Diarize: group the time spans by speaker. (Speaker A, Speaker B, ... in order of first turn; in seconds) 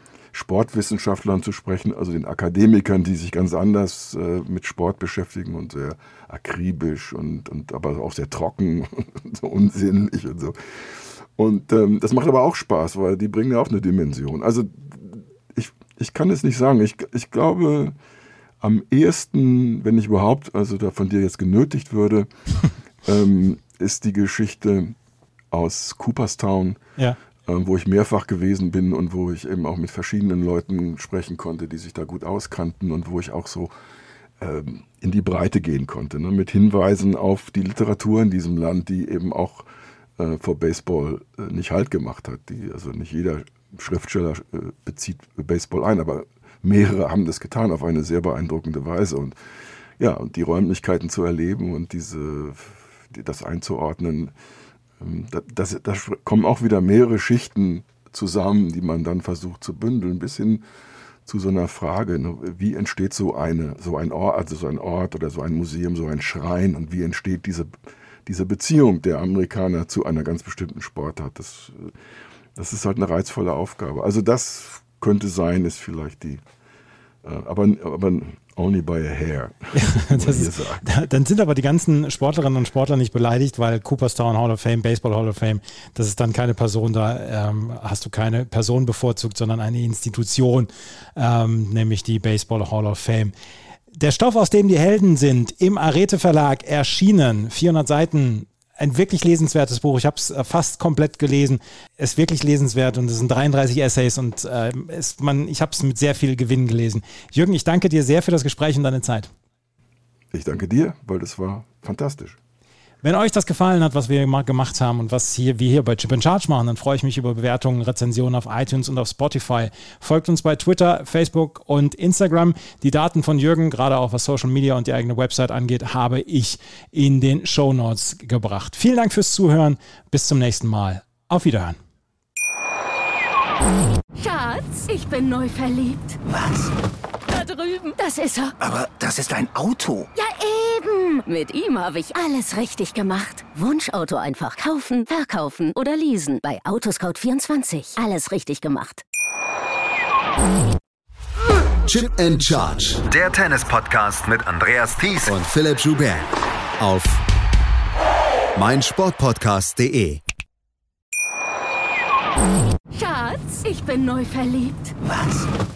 Speaker A: 0.3-17.9, 18.6-22.3, 23.0-25.0, 25.5-26.8, 27.5-33.7, 34.4-39.7, 40.2-49.4, 50.0-54.3, 55.0-60.6, 61.3-72.0, 72.6-76.4, 77.2-80.8, 110.3-112.4
Speaker B: 79.8-93.3, 93.9-109.3, 113.0-131.8
Speaker C: 134.2-136.2, 137.3-138.6, 140.2-149.0, 162.9-165.0
Speaker D: 136.3-136.7, 138.6-140.1, 165.0-165.5
Speaker E: 151.9-153.0, 155.3-156.3, 156.8-157.2, 158.6-160.2
Speaker F: 153.1-155.4